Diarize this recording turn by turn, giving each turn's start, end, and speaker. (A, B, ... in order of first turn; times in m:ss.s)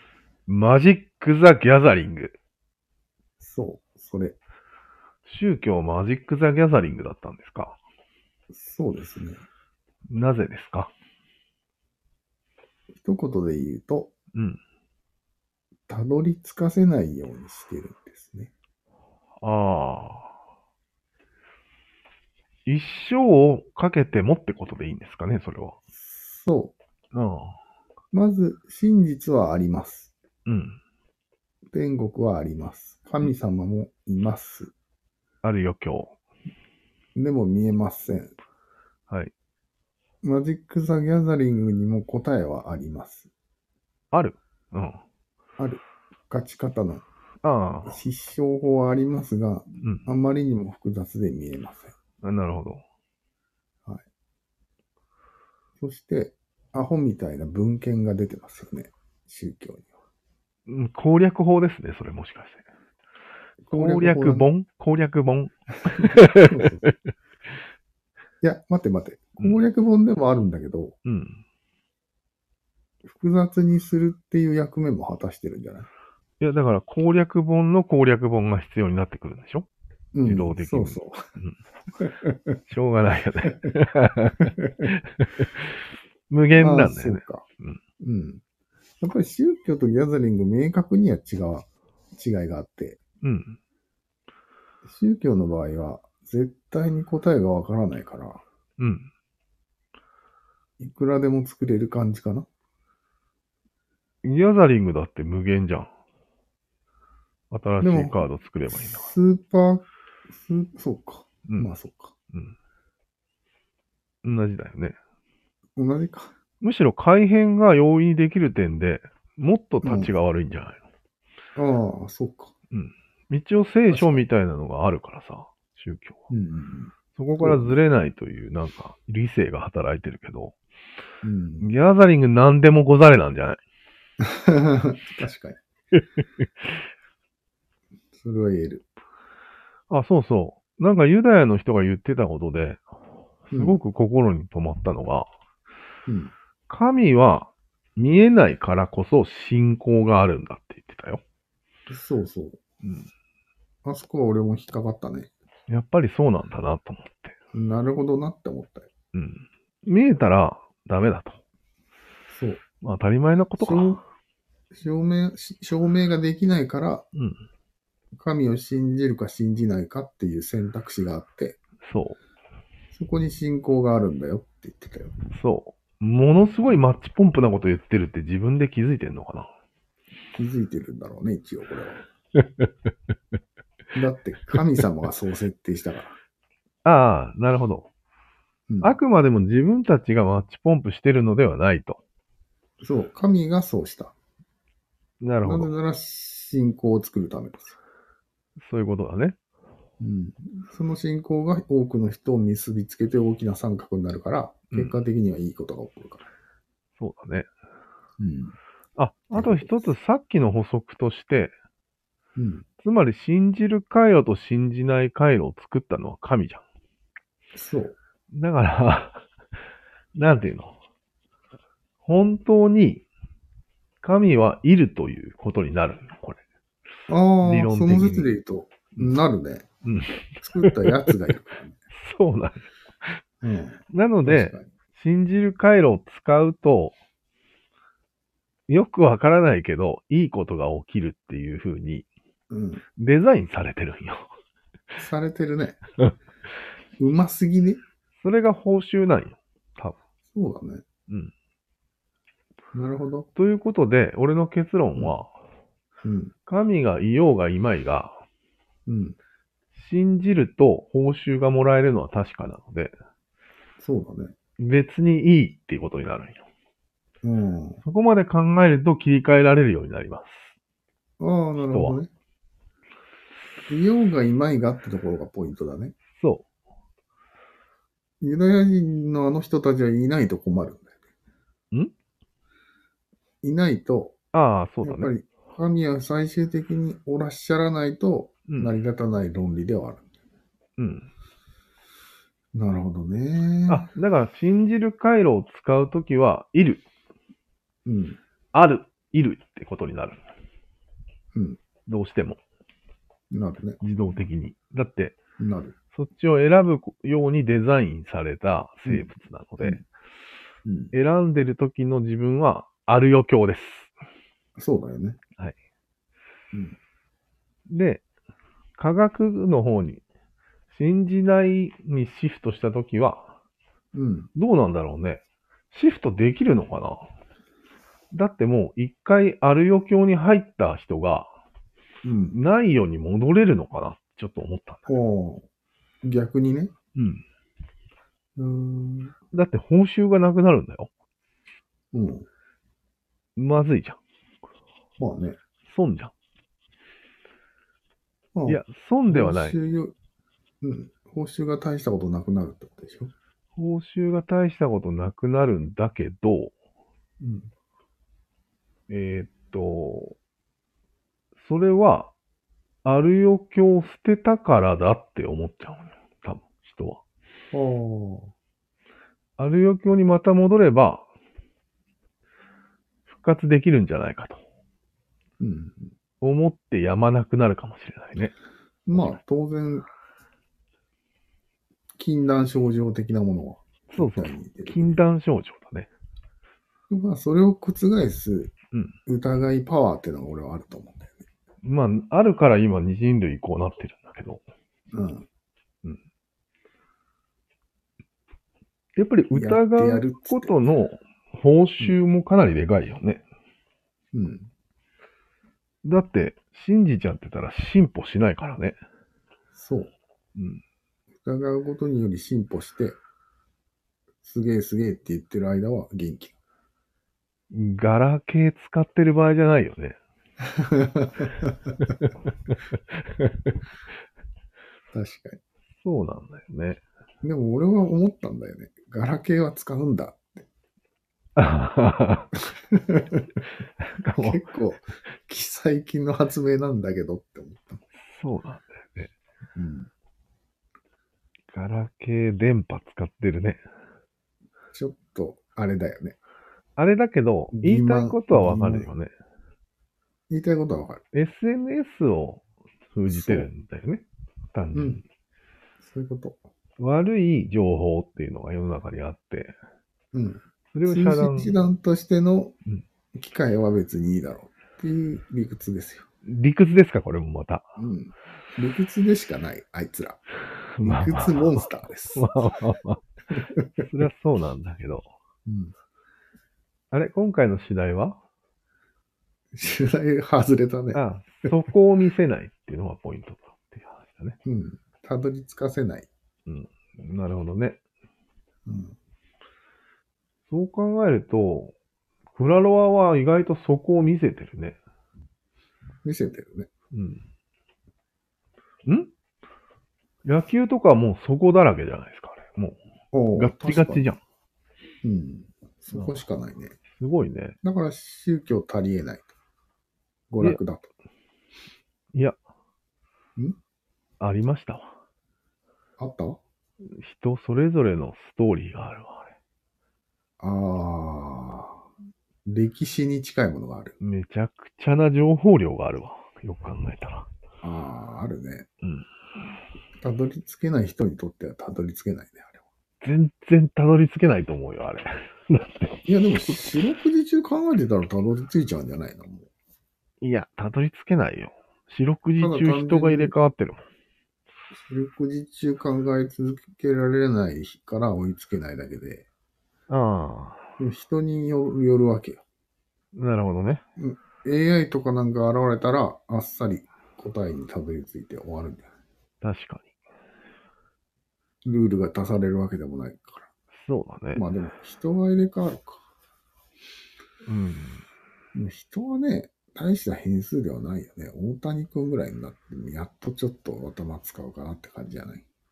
0:00.5-0:02.4 A
0:03.4-0:04.4 B
0:05.2-0:07.8 A
0:08.5-0:09.4 B
0:10.1-0:10.9 A
0:12.9-0:14.1 B
0:15.9-0:18.5 B
0:19.4-0:20.3 A
0:22.7-0:25.8 A
0:26.0-0:26.7 B
0:27.1-0:27.6 A
0:28.1-0:30.1 B
0:30.4-0:30.8 A
0:31.7-0:34.7 B
0:35.4-0:36.1 A
0:37.2-0:38.3 B
0:40.2-0:43.3 B
0:44.1-0:45.0 A
0:45.6-0:47.0 B
0:47.4-0:48.0 A
0:47.8-0:51.9 B
0:52.2-0:52.8 A
0:55.8-0:59.9 B
1:00.7-1:02.6 A
1:03.6-1:04.5 B
1:03.7-1:06.9 A
1:06.3-1:06.9 B
1:08.4-1:11.0 B
1:11.0-1:11.4 A
1:13.0-1:15.9 B
1:16.4-1:19.7 A
1:20.1-1:21.2 B
1:20.2-1:21.6 A
1:22.0-1:22.6 B
1:22.7-1:25.7 A
1:24.4-1:24.8 B
1:26.3-1:27.8 A
1:26.5-1:27.4 B
1:28.0-1:28.4 B
1:29.0-1:33.0 B
1:33.2-1:33.6 A
1:34.8-1:38.4 B
1:38.8-1:39.1 A
1:40.8-1:42.5 B
1:44.2-1:45.9 A
1:47.5-1:49.1 A
1:47.8-1:52.1 B
1:54.2-1:55.0 A
1:55.8-1:56.3 B
1:56.6-2:00.8 A
1:59.8-2:00.1 B
2:01.6-2:02.5 B
2:02.7-2:06.2 A
2:03.9-2:04.2 B
2:06.3-2:07.8 B
2:07.2-2:10.5 A
2:11.2-2:11.7 B
2:11.6-2:13.6 A
2:14.2-2:15.6 B
2:18.1-2:18.8 B
2:19.9-2:22.8 A
2:23.5-2:25.3 A
2:23.5-2:23.8 B
2:26.1-2:26.3 B
2:26.7-2:31.2 A
2:31.9-2:32.6 B
2:33.8-2:35.3 B
2:35.7-2:37.3 A
2:37.5-2:38.9 B
2:39.1-2:41.4 A
2:42.3-2:42.6 B
2:42.8-2:44.0 A
2:43.6-2:44.0 B
2:44.7-2:47.0 B
2:48.1-2:51.6 B
2:51.9-2:52.2 A
2:52.9-2:55.1 B
2:55.3-2:59.5 A
3:00.3-3:02.0 B
3:02.4-3:02.7 A
3:03.9-3:06.2 B
3:06.8-3:07.9 A
3:08.7-3:09.0 B
3:08.8-3:12.0 A
3:12.8-3:14.1 B
3:15.2-3:15.7 A
3:15.4-3:17.8 B
3:18.6-3:19.4 A
3:20.0-3:26.2 B
3:27.0-3:27.5 A
3:28.2-3:28.6 B
3:29.0-3:31.5 A
3:29.3-3:29.9 B
3:32.4-3:32.6 B
3:32.8-3:36.6 A
3:37.5-3:38.0 B
3:38.3-3:39.2 A
3:40.1-3:40.7 A
3:42.0-3:43.0 A
3:44.0-3:46.4 A
3:47.1-3:49.7 B
3:47.4-3:48.3 A
3:49.8-3:50.9 A
3:50.4-3:51.8 B
3:51.9-3:52.6 A
3:53.4-3:54.7 B
3:53.9-3:56.9 A
3:58.7-4:02.1 A
4:02.5-4:02.8 B
4:03.0-4:04.3 A
4:05.0-4:05.8 B
4:07.0-4:07.8 B
4:08.2-4:10.0 A
4:10.3-4:10.8 B
4:12.7-4:13.3 B
4:13.4-4:15.3 A
4:16.0-4:16.3 B
4:16.5-4:18.2 A
4:18.9-4:19.2 B
4:19.7-4:22.9 A
4:23.8-4:24.3 B
4:24.6-4:26.4 A
4:27.2-4:27.8 B
4:27.8-4:30.5 A
4:31.2-4:32.1 B
4:31.7-4:32.0 A
4:33.7-4:35.9 B
4:36.2-4:36.4 A
4:38.2-4:41.0 B
4:43.4-4:44.1 B
4:44.3-4:45.1 A
4:44.8-4:50.0 B
4:50.8-4:51.1 A
4:52.5-4:53.9 B
4:53.7-4:56.8 A
4:57.8-4:58.2 B
4:58.5-5:00.2 A
5:01.3-5:01.6 B
5:01.9-5:02.4 A
5:03.3-5:03.8 B
5:03.8-5:05.2 A
5:05.4-5:05.7 B
5:05.9-5:09.8 A
5:10.6-5:10.9 B
5:10.9-5:13.9 A
5:14.6-5:15.2 B
5:16.5-5:16.8 B
5:17.7-5:18.0 A
5:18.8-5:20.0 A
5:20.7-5:23.3 A
5:23.9-5:24.3 B
5:24.4-5:27.1 A
5:28.1-5:31.3 A
5:32.0-5:32.4 B
5:32.3-5:34.9 A
5:34.9-5:35.4 B
5:36.0-5:36.7 B
5:37.0-5:37.2 A
5:38.4-5:39.1 B
5:39.3-5:40.9 A
5:41.9-5:42.2 B
5:43.4-5:44.0 A
5:45.0-5:45.4 B
5:45.6-5:46.1 A
5:48.3-5:49.9 B
5:48.4-5:49.6 A
5:50.6-5:53.1 B
5:53.6-5:56.5 A
5:57.2-5:57.5 B
5:58.9-6:00.2 A
6:01.4-6:02.1 A
6:02.8-6:07.0 A
6:07.5-6:08.3 B
6:09.4-6:11.0 A
6:13.1-6:14.4 A
6:15.4-6:15.9 B
6:16.2-6:18.3 A
6:18.8-6:19.8 B
6:18.9-6:19.2 A
6:22.0-6:25.0 B
6:23.9-6:25.9 A
6:26.9-6:28.5 B
6:29.0-6:31.2 B
6:31.6-6:34.4 A
6:34.9-6:35.2 B
6:39.0-6:43.2 A
6:39.3-6:40.6 B
6:44.1-6:44.5 B
6:45.8-6:48.8 A
6:49.5-6:49.9 B
6:50.4-6:50.6 A
6:51.2-6:53.0 B
6:54.2-6:56.4 B
6:57.5-7:00.0 A
7:00.5-7:01.7 B
7:02.0-7:02.6 A
7:03.2-7:03.5 A
7:04.9-7:05.4 B
7:05.8-7:06.8 A
7:07.2-7:10.4 B
7:11.4-7:12.3 A
7:12.7-7:13.3 B
7:13.8-7:14.5 A
7:14.2-7:17.8 B
7:18.1-7:19.1 A
7:19.5-7:19.9 B
7:21.5-7:23.6 A
7:24.7-7:26.2 B
7:26.8-7:29.1 A
7:27.5-7:28.9 B
7:30.3-7:31.0 B
7:31.1-7:32.4 A
7:32.9-7:35.0 A
7:33.1-7:33.5 B
7:34.7-7:35.0 B
7:35.8-7:36.4 B
7:36.8-7:39.5 A
7:40.1-7:42.5 B
7:40.7-7:41.5 A
7:43.1-7:46.1 B
7:46.2-7:47.6 A
7:47.8-7:50.2 B
7:50.8-7:51.6 A
7:50.8-7:52.3 B
7:52.1-7:53.0 A
7:53.3-7:53.8 B
7:53.8-7:55.1 A
7:55.5-7:55.7 B
7:56.9-7:58.2 A
7:59.5-8:01.6 B
8:00.9-8:04.4 A
8:04.4-8:06.1 B
8:06.5-8:07.8 A
8:08.6-8:08.9 B
8:10.5-8:11.7 A
8:12.3-8:14.8 A
8:16.0-8:16.7 B
8:16.9-8:17.2 A
8:20.2-8:22.8 A
8:23.1-8:24.1 B
8:23.4-8:24.2 A
8:25.0-8:26.8 B
8:25.9-8:26.2 A
8:27.0-8:27.6 A
8:27.6-8:29.3 B
8:30.3-8:30.9 B
8:34.2-8:34.9 A
8:36.0-8:36.4 B
8:37.0-8:39.3 A
8:40.4-8:41.8 B
8:42.4-8:44.0 B
8:44.0-8:47.3 A
8:47.6-8:48.7 B
8:50.0-8:52.6 B
8:53.0-8:56.0 A
8:56.0-8:59.5 B
9:00.2-9:03.8 A
9:02.4-9:03.3 B
9:04.7-9:09.3 B
9:09.9-9:10.7 A
9:10.8-9:12.4 B
9:13.1-9:13.8 A
9:14.0-9:18.9 B
9:19.4-9:19.9 A
9:21.6-9:23.5 B
9:23.8-9:24.4 A
9:24.3-9:26.0 B
9:27.4-9:28.0 A
9:28.5-9:35.4 B